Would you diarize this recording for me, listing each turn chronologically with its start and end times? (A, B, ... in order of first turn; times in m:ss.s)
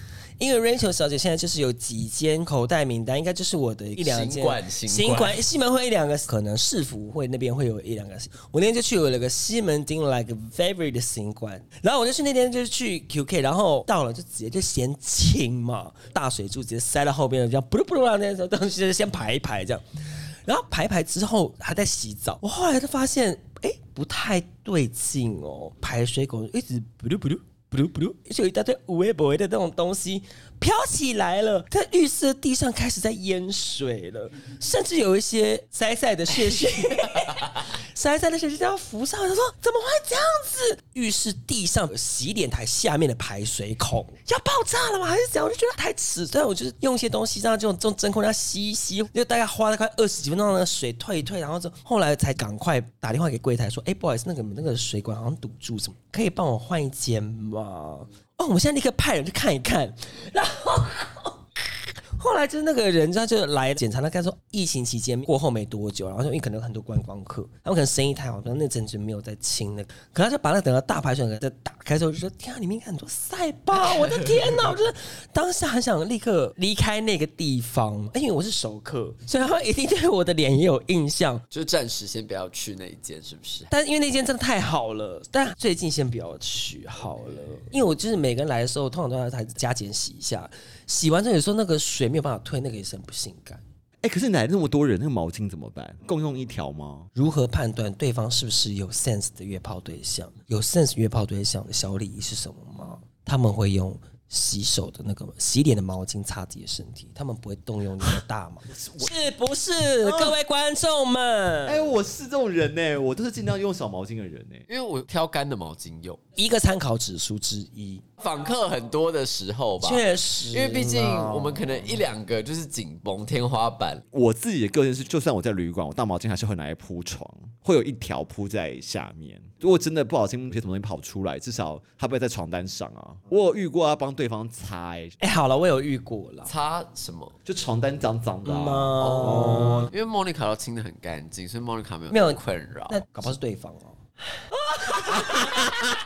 0:00.4-0:19.8 A
0:04.0-0:05.4 B
0:20.5-1:01.4 A
1:02.2-1:21.4 A
1:21.5-1:23.7 B
1:23.7-1:33.6 A
1:34.0-1:37.1 C
1:37.2-1:51.9 A
1:50.0-1:50.4 C
1:51.7-1:54.7 C
1:54.7-1:56.2 B
1:56.4-1:58.0 A
1:58.2-2:04.0 B
1:59.8-2:02.0 A
2:04.1-2:15.2 C
2:15.2-2:16.5 A
2:16.5-2:17.4 B
2:17.5-2:19.8 C
2:18.4-2:19.9 A
2:19.0-2:23.3 B
2:22.1-2:25.8 A